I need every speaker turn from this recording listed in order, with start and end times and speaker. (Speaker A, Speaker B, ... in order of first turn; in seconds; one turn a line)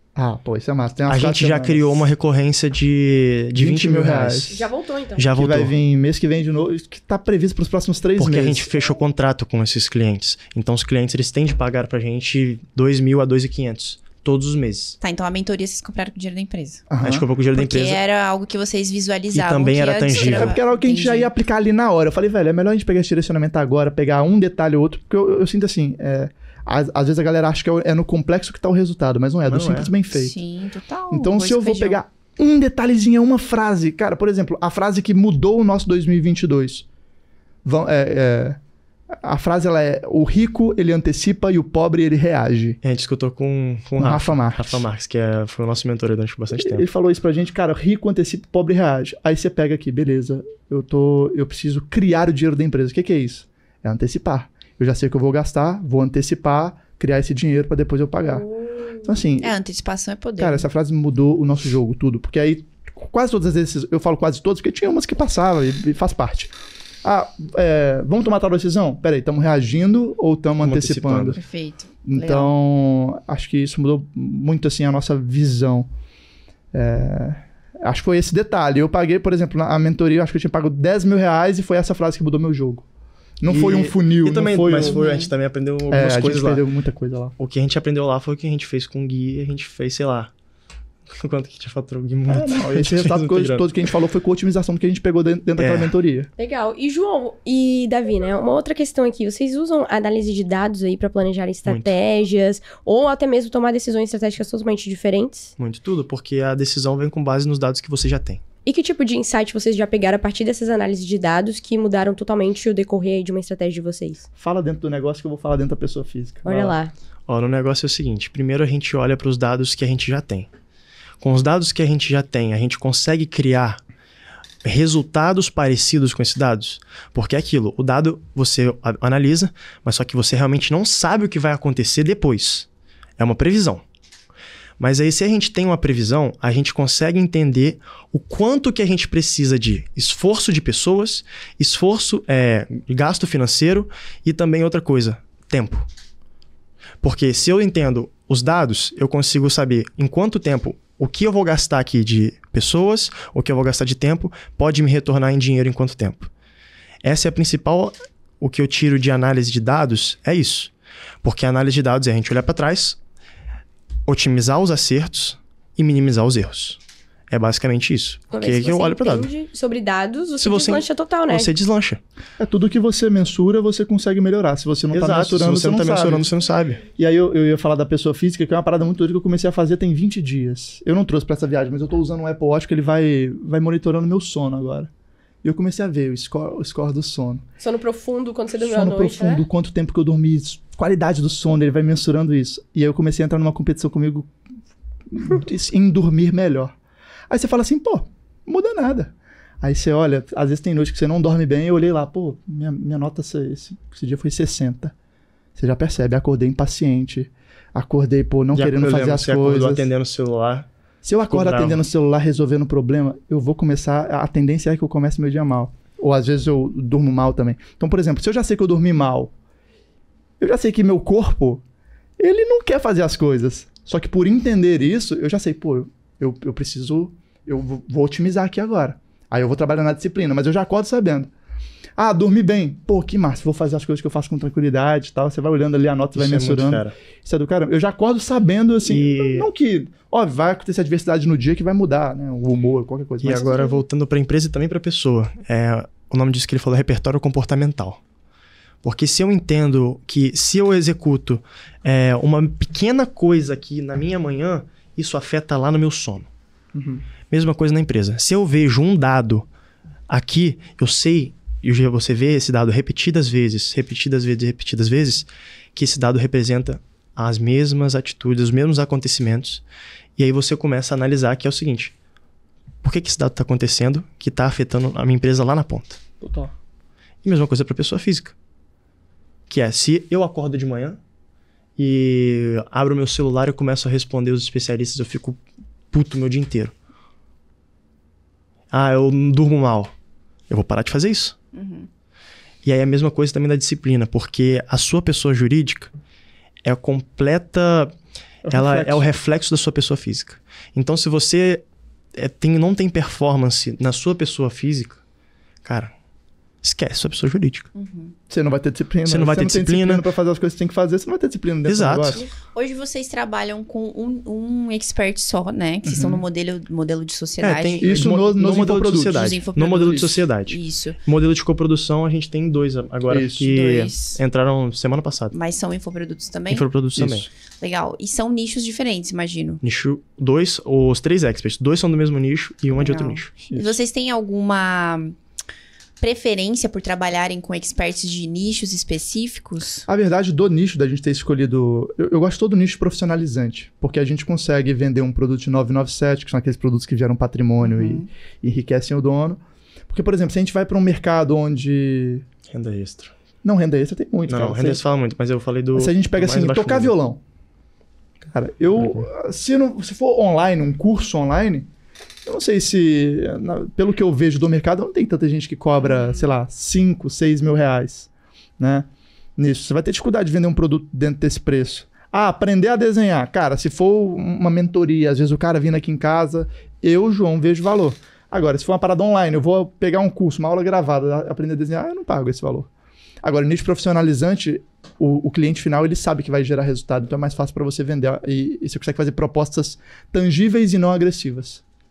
Speaker A: 0.2-2.1
Speaker B: 1.1-4.6
Speaker A: 3.5-4.6
Speaker C: 4.5-5.3
Speaker B: 5.2-5.7
Speaker A: 5.3-8.7
Speaker B: 8.2-15.0
Speaker D: 15.0-16.9
Speaker A: 16.9-17.3
Speaker B: 17.0-18.0
Speaker D: 17.5-21.3
Speaker B: 19.3-20.6
Speaker A: 20.2-30.4
Speaker B: 29.4-29.9
Speaker D: 30.1-32.0
Speaker A: 31.1-36.9
Speaker A: 37.6-38.6
Speaker A: 39.1-42.8
Speaker B: 42.8-46.9
Speaker A: 44.0-44.9
Speaker A: 46.6-58.5
Speaker A: 59.0-59.5
Speaker D: 59.4-60.7
Speaker A: 60.4-66.5
Speaker A: 67.0-71.4
Speaker B: 70.6-71.4
Speaker D: 71.3-72.5
Speaker A: 72.0-75.9
Speaker A: 76.7-82.9
Speaker A: 83.4-85.0
Speaker B: 83.5-86.6
Speaker D: 84.9-85.3
Speaker A: 85.9-87.3
Speaker B: 87.4-90.3
Speaker B: 91.1-93.7
Speaker A: 92.3-96.3
Speaker B: 95.6-95.9
Speaker C: 96.4-105.5
Speaker B: 101.7-101.9
Speaker B: 105.6-108.4
Speaker C: 108.7-114.3
Speaker A: 114.4-116.8
Speaker C: 116.5-116.9
Speaker B: 117.3-120.5
Speaker B: 121.2-123.8
Speaker B: 124.6-132.7
Speaker B: 133.2-133.8
Speaker B: 134.8-145.9
Speaker B: 147.0-156.3
Speaker B: 157.0-160.7
Speaker B: 161.2-163.0
Speaker B: 164.1-169.3
Speaker C: 168.3-171.5
Speaker B: 170.4-172.0
Speaker A: 172.4-176.3
Speaker B: 174.9-176.8
Speaker A: 176.9-184.9
Speaker A: 185.4-187.4
Speaker C: 187.6-189.4
Speaker A: 188.6-194.3
Speaker A: 195.1-196.8
Speaker A: 197.3-204.9
Speaker A: 205.6-209.9
Speaker B: 208.5-210.7
Speaker A: 211.0-219.3
Speaker B: 211.3-211.8
Speaker A: 220.4-221.6
Speaker A: 222.2-231.3
Speaker A: 232.0-243.8
Speaker B: 236.2-236.9
Speaker B: 238.8-239.5
Speaker B: 243.2-248.0
Speaker B: 248.8-256.3
Speaker A: 256.8-257.0
Speaker B: 257.3-259.5
Speaker B: 260.1-269.6
Speaker B: 270.2-271.9
Speaker B: 272.8-276.0
Speaker A: 276.2-276.5
Speaker B: 277.2-278.3
Speaker B: 279.5-281.0
Speaker B: 281.8-285.4
Speaker B: 285.9-286.7
Speaker B: 288.7-289.9
Speaker B: 290.5-291.4
Speaker D: 291.5-291.9
Speaker B: 292.6-295.9
Speaker B: 296.6-297.9
Speaker A: 298.5-299.1
Speaker B: 298.5-301.6
Speaker B: 302.1-305.0
Speaker B: 305.6-305.9
Speaker B: 306.6-307.7
Speaker D: 307.7-308.1
Speaker A: 308.3-312.2
Speaker B: 309.1-310.1
Speaker B: 311.7-312.2
Speaker D: 312.2-318.0
Speaker A: 315.9-316.2
Speaker B: 317.4-325.4
Speaker A: 317.8-320.1
Speaker D: 319.1-321.0
Speaker A: 323.1-323.5
Speaker D: 323.4-324.2
Speaker D: 325.3-326.7
Speaker B: 326.5-327.3
Speaker A: 327.0-327.2
Speaker D: 327.6-329.6
Speaker B: 329.6-333.3
Speaker D: 332.8-335.2
Speaker D: 336.0-339.9
Speaker A: 339.9-352.2
Speaker D: 347.6-348.1
Speaker B: 352.5-353.1
Speaker A: 353.4-354.8
Speaker B: 354.3-356.9
Speaker A: 355.8-357.2
Speaker A: 358.3-361.7
Speaker A: 362.3-382.7
Speaker A: 383.2-391.6